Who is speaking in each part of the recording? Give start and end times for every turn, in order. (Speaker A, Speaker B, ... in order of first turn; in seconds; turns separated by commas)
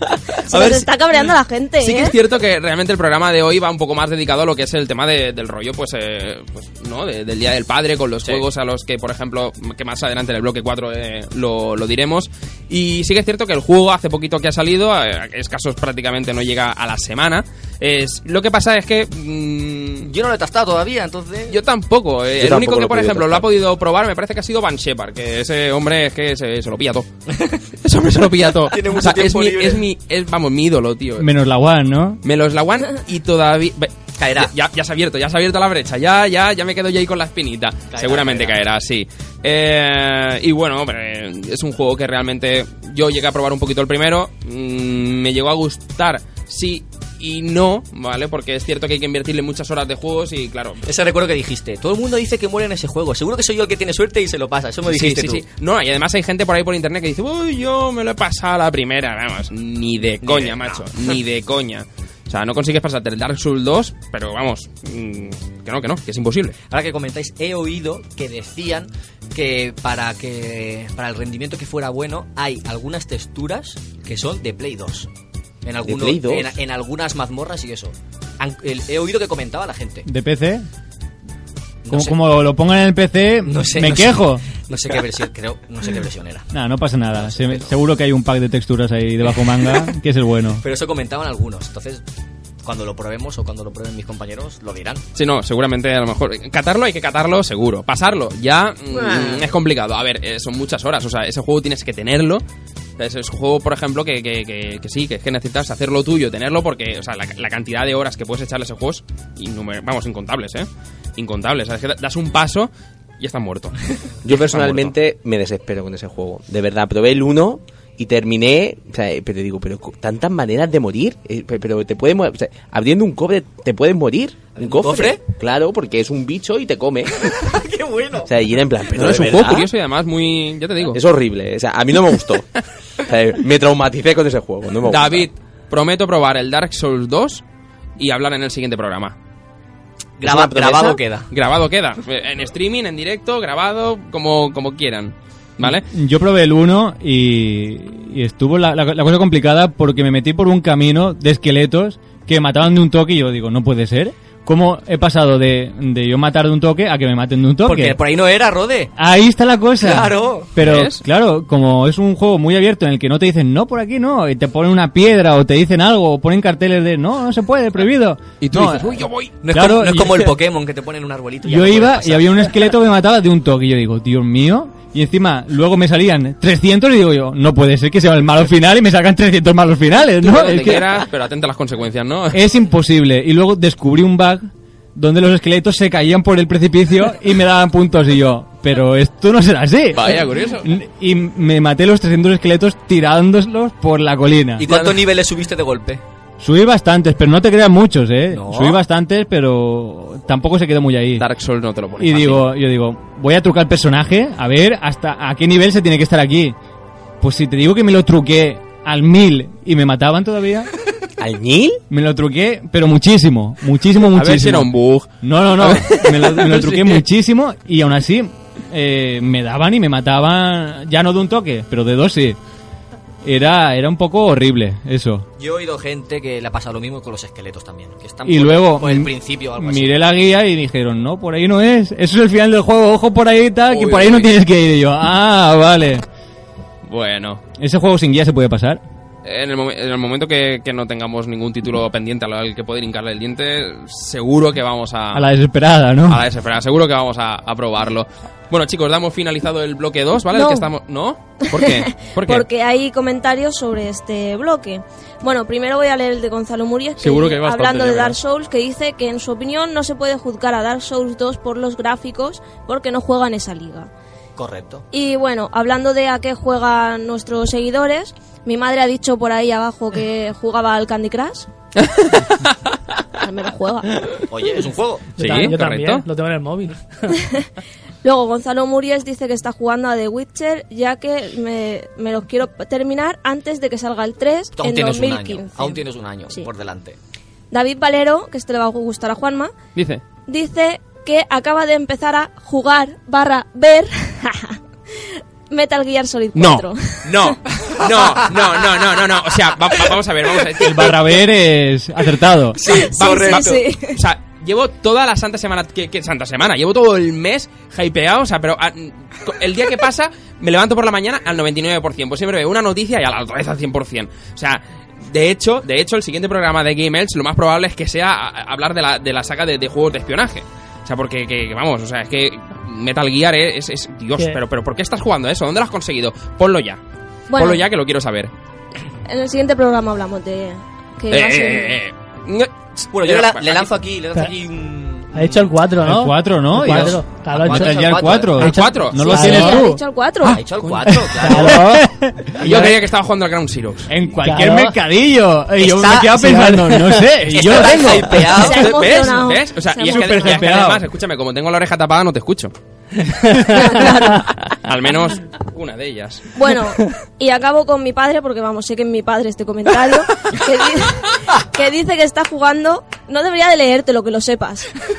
Speaker A: 0.5-2.2, Speaker B: 0.5-20.1, Speaker C: 20.0-21.6, Speaker B: 21.5-27.1, Speaker D: 22.4-23.5, Speaker C: 27.3-27.6, Speaker B: 27.8-31.3, Speaker C: 28.7-29.9, Speaker E: 31.2-32.2, Speaker B: 32.2-50.8, Speaker C: 34.2-34.5, Speaker C: 37.9-38.6, Speaker C: 50.9-55.5, Speaker B: 54.9-66.6, Speaker C: 60.2-61.1, Speaker C: 66.7-75.1, Speaker C: 75.7-80.1, Speaker D: 75.8-76.6, Speaker E: 80.1-80.7, Speaker C: 81.8-82.2, Speaker E: 81.9-84.5, Speaker C: 83.4-86.5, Speaker E: 86.5-90.6, Speaker C: 87.2-87.7, Speaker C: 89.3-89.9, Speaker C: 90.6-92.0, Speaker C: 92.6-95.0, Speaker B: 95.2-102.4, Speaker C: 98.9-99.5, Speaker B: 103.0-114.9, Speaker D: 114.2-127.3, Speaker C: 124.6-125.2, Speaker C: 127.1-128.3, Speaker D: 128.2-129.7, Speaker B: 128.9-131.0, Speaker D: 130.9-132.5, Speaker D: 133.0-135.3, Speaker B: 134.9-137.4, Speaker B: 138.0-139.2, Speaker C: 140.2-141.3, Speaker D: 140.2-141.0, Speaker B: 141.3-145.8, Speaker E: 145.6-158.0, Speaker C: 157.7-158.9, Speaker E: 159.0-170.3, Speaker C: 159.8-160.5, Speaker B: 160.6-161.0, Speaker B: 168.4-169.3, Speaker C: 169.4-172.7, Speaker E: 171.4-181.0, Speaker B: 180.2-182.4, Speaker E: 182.3-194.7, Speaker B: 189.9-190.7, Speaker C: 194.6-196.0, Speaker B: 194.7-194.9, Speaker E: 196.4-201.3, Speaker C: 198.3-198.8, Speaker B: 201.2-202.5, Speaker E: 202.0-206.6, Speaker E: 207.2-210.7, Speaker D: 211.2-211.8, Speaker E: 211.9-214.7, Speaker B: 214.1-217.0, Speaker E: 215.2-222.4, Speaker E: 223.2-225.3, Speaker C: 225.4-230.0, Speaker E: 228.3-236.0, Speaker B: 233.7-234.3, Speaker B: 236.9-237.4, Speaker E: 237.6-238.8, Speaker B: 239.2-245.3, Speaker E: 245.1-246.2, Speaker B: 246.1-252.4, Speaker A: 250.3-250.7, Speaker A: 251.5-263.9, Speaker B: 257.0-258.2, Speaker C: 264.4-264.9, Speaker A: 264.9-271.5, Speaker B: 271.8-272.2, Speaker A: 273.2-274.3, Speaker C: 274.3-275.3, Speaker F: 275.2-276.9, Speaker B: 275.2-276.1, Speaker A: 277.2-277.5, Speaker A: 278.0-286.5, Speaker C: 284.6-287.0, Speaker A: 287.5-289.5, Speaker B: 289.8-290.0, Speaker A: 290.3-297.4, Speaker B: 296.4-301.2, Speaker C: 297.8-298.3, Speaker E: 300.6-302.6, Speaker C: 302.6-303.6, Speaker B: 302.6-326.8, Speaker A: 302.6-304.0, Speaker A: 327.3-327.6, Speaker B: 327.4-328.3, Speaker A: 329.1-331.8, Speaker B: 331.1-333.7, Speaker C: 332.9-335.6, Speaker F: 335.1-339.7, Speaker E: 335.8-339.8, Speaker C: 336.7-338.5, Speaker B: 338.4-339.4, Speaker A: 339.0-340.4, Speaker C: 340.3-341.6, Speaker E: 340.3-342.5, Speaker B: 340.6-341.0, Speaker F: 341.2-342.7, Speaker B: 342.4-343.9, Speaker E: 343.9-348.5, Speaker F: 344.2-344.8, Speaker C: 345.6-346.2, Speaker F: 346.1-347.2, Speaker C: 347.2-348.7, Speaker A: 348.3-350.5, Speaker B: 348.4-352.5, Speaker E: 349.8-350.8, Speaker F: 353.2-353.7, Speaker A: 353.5-354.3, Speaker B: 354.6-356.3, Speaker A: 356.4-364.7